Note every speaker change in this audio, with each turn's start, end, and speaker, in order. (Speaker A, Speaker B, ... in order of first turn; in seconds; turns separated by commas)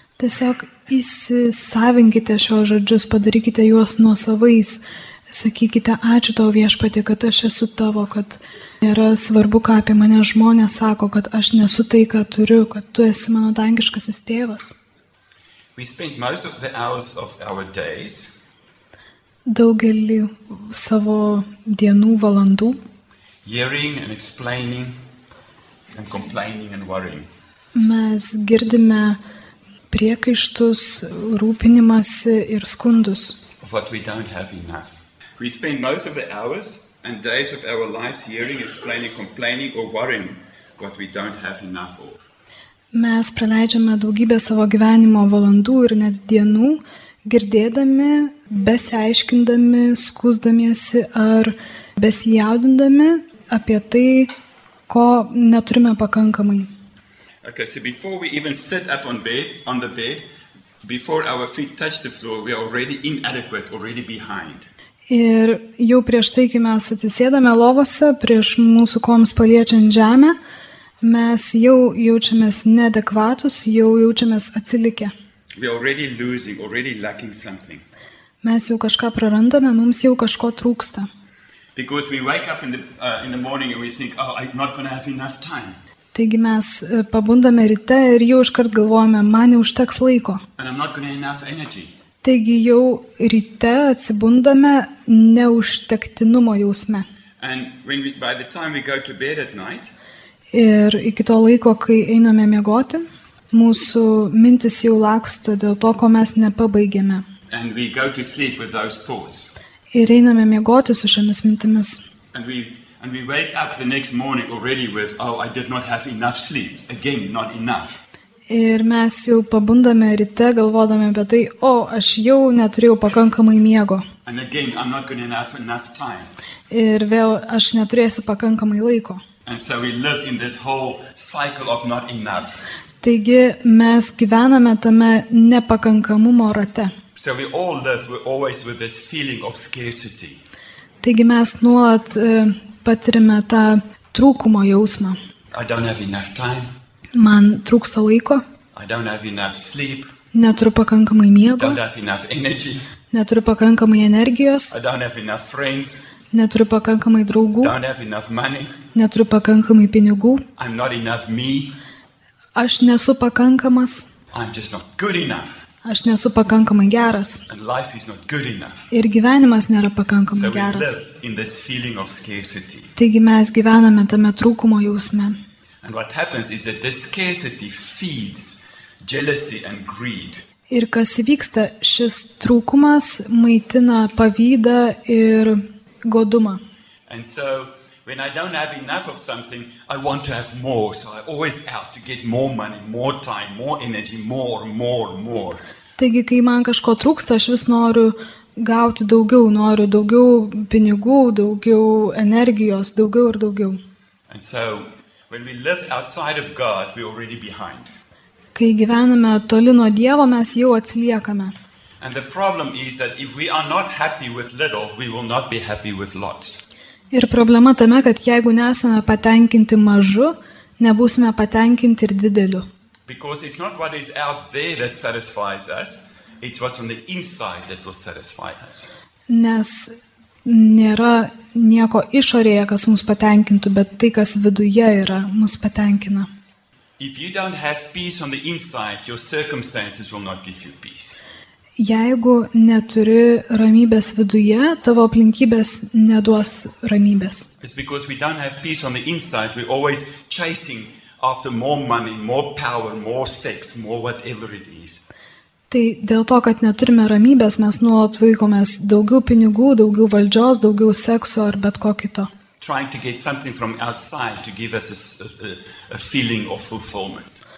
Speaker A: 0.2-14.7, Speaker B: 15.8-18.3, Speaker A: 19.5-22.8, Speaker B: 23.4-25.0, Speaker B: 25.9-27.3, Speaker A: 27.8-29.2, Speaker A: 29.9-33.4, Speaker B: 33.6-42.2, Speaker A: 42.9-54.3, Speaker A: 54.9-56.7, Speaker B: 57.4-60.3, Speaker B: 60.8-64.7, Speaker A: 65.1-70.4, Speaker A: 71.0-75.1, Speaker B: 75.6-77.8, Speaker A: 78.4-81.1, Speaker B: 81.8-85.8, Speaker A: 86.1-90.4, Speaker B: 90.6-91.9, Speaker A: 92.2-97.1, Speaker B: 97.4-99.9, Speaker A: 100.5-107.2, Speaker B: 107.5-109.5, Speaker A: 109.9-112.0, Speaker B: 112.3-118.0, Speaker A: 118.5-124.1, Speaker B: 124.2-126.3, Speaker A: 126.7-129.2, Speaker B: 129.5-132.6, Speaker A: 133.0-136.9, Speaker B: 137.2-140.4, Speaker A: 141.0-145.2, Speaker B: 145.5-146.7, Speaker A: 147.1-148.4, Speaker B: 148.7-150.1, Speaker A: 150.3-151.8, Speaker B: 151.6-152.9, Speaker A: 153.1-154.8, Speaker B: 154.7-156.1, Speaker A: 156.3-157.7, Speaker B: 157.6-158.8, Speaker A: 158.9-160.4, Speaker B: 160.6-161.8, Speaker A: 162.6-164.1, Speaker B: 164.3-165.6, Speaker A: 165.8-167.4, Speaker B: 167.5-168.9, Speaker A: 168.9-171.0, Speaker B: 170.3-172.9, Speaker A: 173.0-175.4, Speaker B: 175.8-180.4, Speaker A: 180.7-186.6, Speaker B: 187.1-195.6, Speaker A: 196.0-203.8, Speaker B: 204.3-207.9, Speaker A: 208.5-211.5, Speaker B: 212.0-216.6, Speaker A: 217.1-222.7, Speaker B: 223.1-228.9, Speaker A: 229.3-236.3, Speaker B: 237.0-241.2, Speaker A: 241.8-247.5, Speaker B: 247.6-255.0, Speaker A: 255.7-262.3, Speaker B: 262.6-267.4